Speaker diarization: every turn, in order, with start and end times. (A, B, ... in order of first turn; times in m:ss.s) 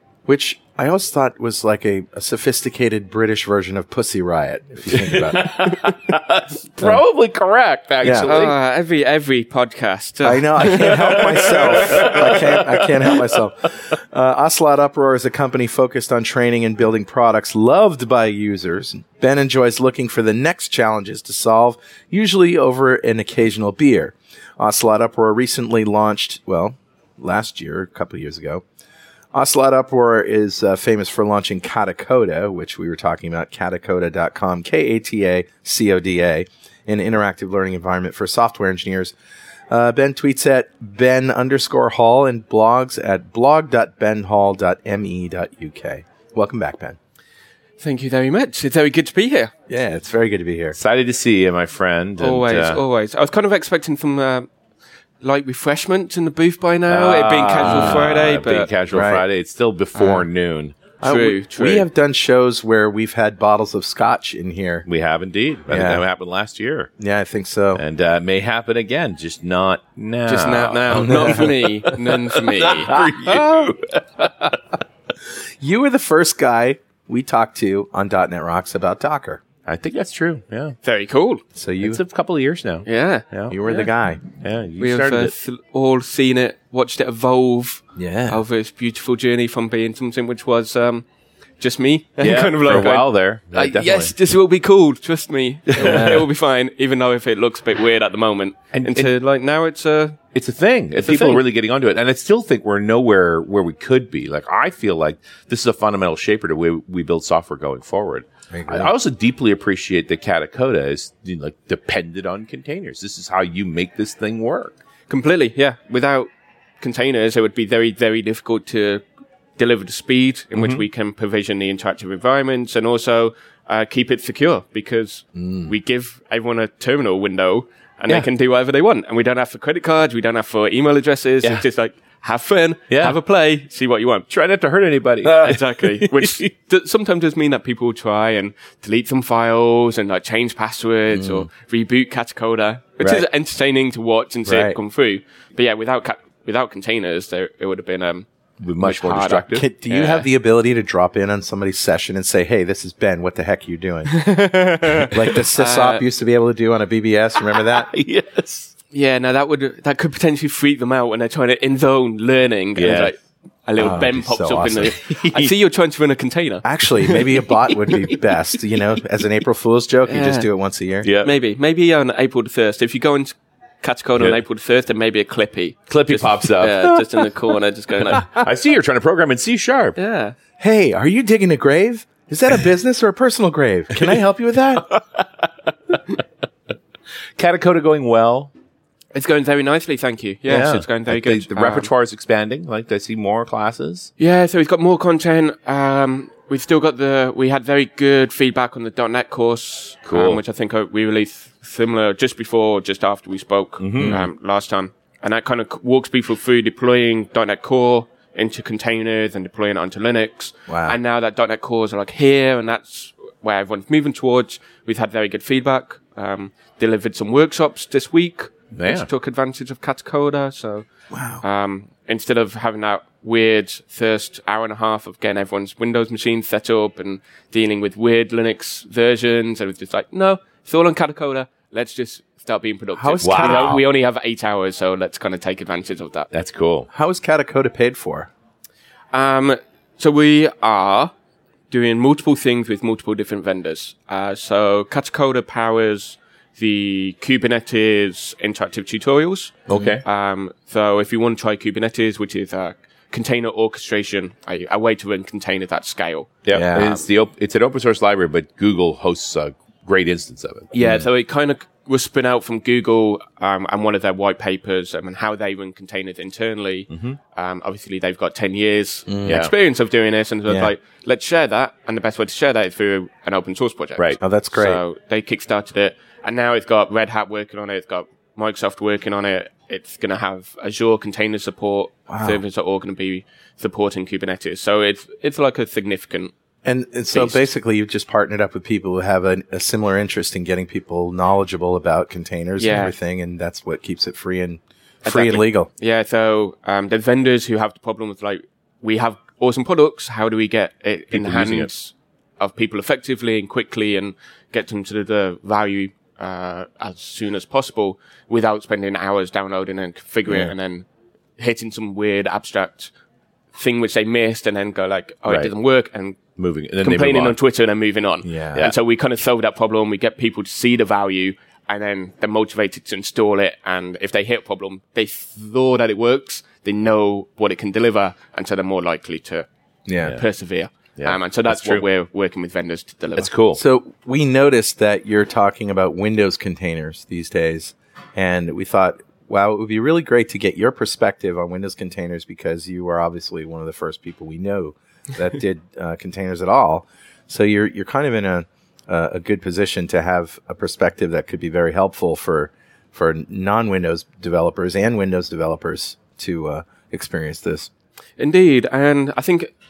0:00.2-0:05.8 A
0:04.9-0:08.5 B
0:08.0-0:08.4 A
0:08.2-0:11.5 C
0:10.2-0:28.6 A
0:10.8-0:13.2 B
0:29.3-0:39.1 A
0:39.7-0:47.0 A
0:47.8-0:49.5 C
0:49.7-0:50.8 A
0:50.8-0:52.8 B
0:52.2-0:54.5 C
0:55.2-0:58.7 C
0:56.9-1:00.9 B
0:57.6-0:58.0 A
0:58.9-0:59.2 A
1:00.0-1:00.2 C
1:01.0-1:04.8 A
1:01.0-1:01.9 C
1:04.9-1:06.9 B
1:05.7-1:06.0 A
1:07.0-1:07.8 A
1:07.8-1:14.6 B
1:10.3-1:12.9 C
1:11.0-1:11.4 A
1:15.6-1:19.4 A
1:19.6-1:20.8 B
1:20.8-1:21.4 C
1:21.5-1:22.0 A
1:21.8-1:23.6 B
1:22.8-1:23.9 C
1:23.5-1:24.2 A
1:24.3-1:25.3 B
1:24.8-1:31.0 C
1:28.0-1:28.4 A
1:31.6-1:40.2 C
1:32.2-1:34.1 B
1:35.7-1:36.2 B
1:35.8-1:36.2 A
1:38.7-1:39.1 B
1:40.3-1:54.7 B
1:41.0-1:41.4 C
1:48.5-1:48.9 A
1:55.1-1:56.3 C
1:56.8-1:59.0 C
1:59.6-2:14.3 C
2:00.5-2:00.8 B
2:05.4-2:05.7 A
2:12.9-2:13.2 B
2:14.3-2:16.4 B
2:15.2-2:28.3 C
2:24.4-2:24.8 A
2:28.6-2:29.7 B
2:28.8-2:30.2 C
2:29.5-2:34.3 A
2:34.1-2:36.0 C
2:35.0-2:37.9 A
2:37.7-2:38.7 B
2:38.9-2:47.2 C
2:42.8-2:43.1 B
2:43.8-2:44.9 A
2:44.8-2:45.5 B
2:46.6-2:51.1 A
2:50.1-2:50.5 C
2:51.0-2:51.3 B
2:51.2-2:58.3 C
2:55.9-2:57.0 B
2:58.1-3:00.0 B
3:00.0-3:00.3 C
3:00.6-3:04.9 A
3:07.4-3:08.5 B
3:09.1-3:11.9 C
3:10.5-3:14.1 B
3:14.2-3:40.8 C
3:20.0-3:20.4 B
3:23.8-3:24.2 B
3:24.0-3:24.2 A
3:30.7-3:31.0 A
3:38.8-3:39.1 B
3:41.1-3:41.4 A
3:41.4-3:56.3 C
3:53.0-3:53.8 A
3:53.2-3:53.8 B
3:56.3-3:56.9 B
3:56.9-3:58.3 A
3:59.1-4:01.1 C
4:01.7-4:17.0 C
4:09.7-4:10.0 A
4:09.7-4:10.0 B
4:16.4-4:20.7 B
4:16.5-4:16.9 A
4:20.7-4:46.3 C
4:20.8-4:21.0 A
4:26.9-4:27.2 B
4:29.1-4:29.4 A
4:29.2-4:29.5 B
4:34.2-4:34.8 A
4:42.1-4:42.4 A
4:46.6-4:55.7 A
4:47.1-4:47.4 C
4:52.6-4:52.9 C
4:55.0-5:10.9 C
5:01.1-5:01.7 B
5:11.4-5:12.9 C
5:13.5-5:16.2 C
5:15.3-5:15.5 B
5:16.4-5:17.4 B
5:16.8-5:29.5 C
5:18.2-5:18.7 A
5:29.8-5:30.2 A
5:30.0-5:33.3 C
5:31.0-5:31.8 B
5:33.2-5:33.6 B
5:33.5-5:57.7 A
5:58.2-5:59.5 C